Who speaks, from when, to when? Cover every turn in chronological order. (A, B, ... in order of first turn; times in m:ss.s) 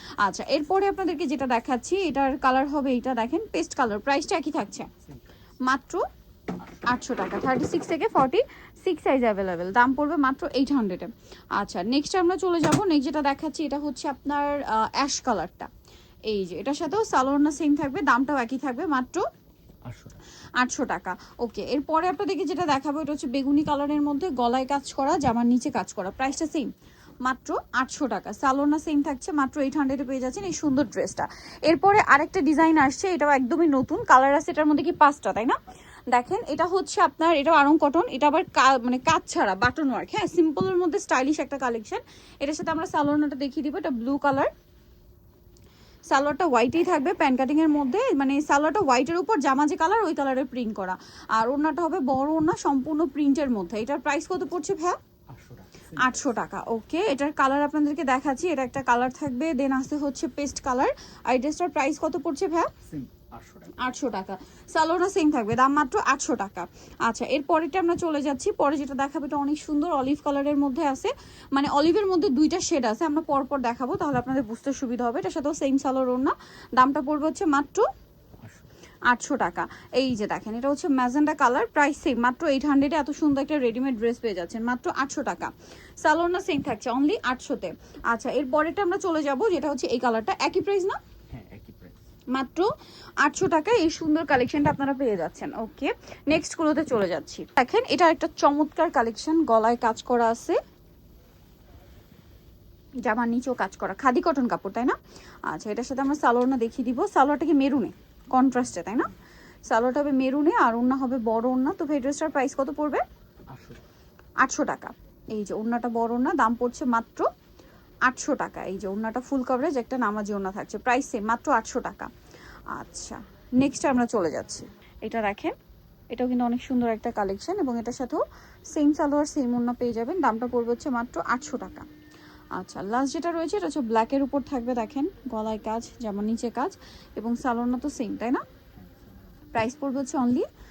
0:00.2-0:04.9 A
0:05.6-0:06.0 A
0:06.8-0:15.7 A
0:16.3-0:19.2 A
0:19.8-0:20.2 B
0:20.6-0:26.7 A
0:27.2-0:35.6 A
0:36.1-0:44.5 A
0:46.1-0:55.0 A
0:55.3-0:56.2 B
0:56.0-1:02.7 A
1:02.8-1:03.8 B
1:03.8-1:17.9 A
1:18.4-1:18.6 B
1:19.1-1:31.0 A
1:31.3-1:32.0 B
1:32.3-1:32.7 A
1:33.2-1:40.6 A
1:43.0-1:45.0 A
1:45.5-1:49.1 A
1:49.7-1:53.0 A
1:53.5-1:53.8 B
1:54.4-1:57.3 A
1:58.0-2:02.1 A
2:02.7-2:05.5 A
2:06.1-2:08.2 A
2:08.7-2:11.9 A
2:12.6-2:18.4 A
2:18.8-2:19.2 B
2:19.5-2:20.5 A